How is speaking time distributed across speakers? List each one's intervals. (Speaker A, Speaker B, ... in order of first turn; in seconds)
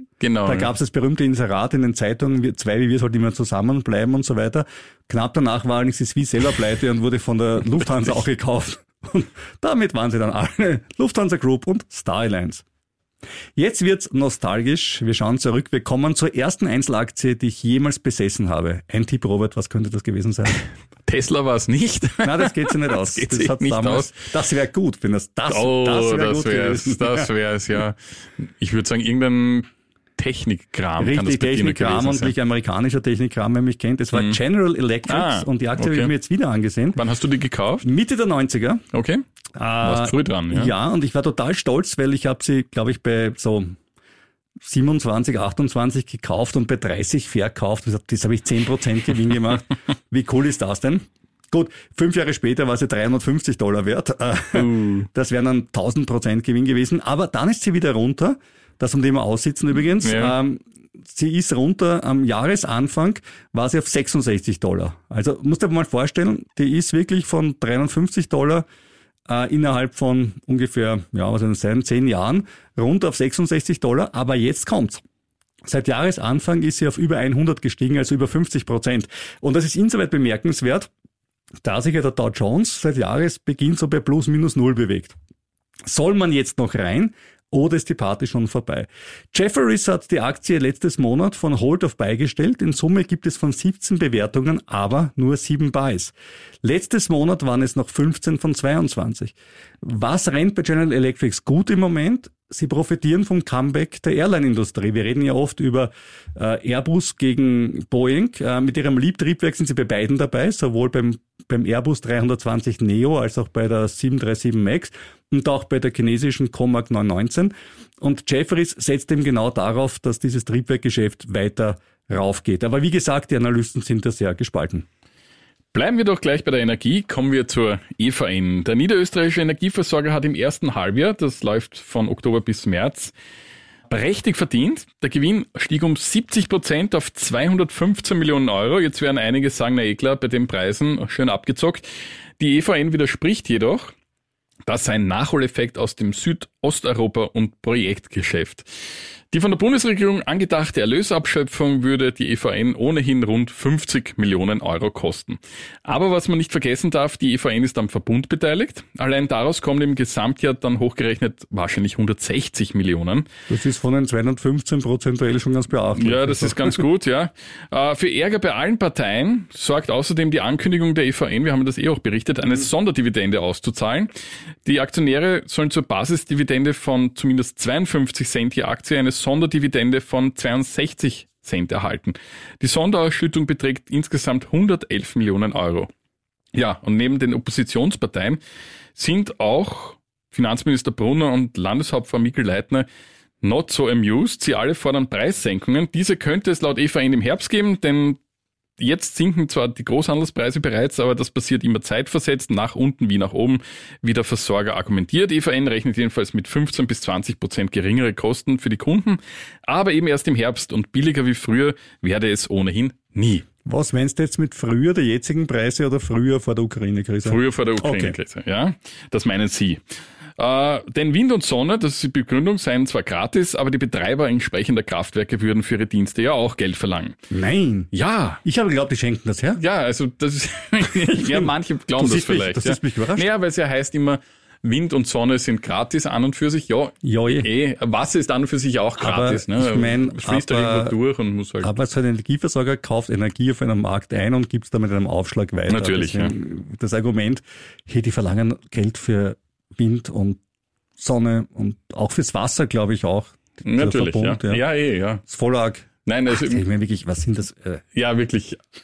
Speaker A: 0.2-0.7, 21.1-24.1, 25.5-32.3, 35.1-36.1, 37.0-37.9, 38.9-39.2, 39.8-40.7, 54.5-55.1, 60.0-60.4, 125.7-133.1, 133.9-141.9, 142.4-143.9, 144.7-148.7, 149.3-163.3, 166.0-174.1, 174.7-185.9, 186.5-188.4, 188.9-192.9, 193.4-198.2, 198.8-213.5, 217.2-219.8, 220.4-227.2, 227.9-228.4, 229.6-241.7, 245.7-246.3, 253.6-255.2, 256.1-256.6, 257.9-258.6
Speaker B: 0.4-12.6, 13.6-20.6, 22.2-27.3, 31.0-37.0, 37.8-38.8, 39.6-43.8, 44.6-68.7, 69.3-75.0, 75.6-80.9, 81.6-85.1, 85.9-124.9, 163.5-166.8, 213.7-218.2, 227.3-227.9, 228.4-229.6, 231.1-233.3, 237.0-237.5, 239.0-240.9, 241.6-250.4, 251.0-254.6, 255.2-257.8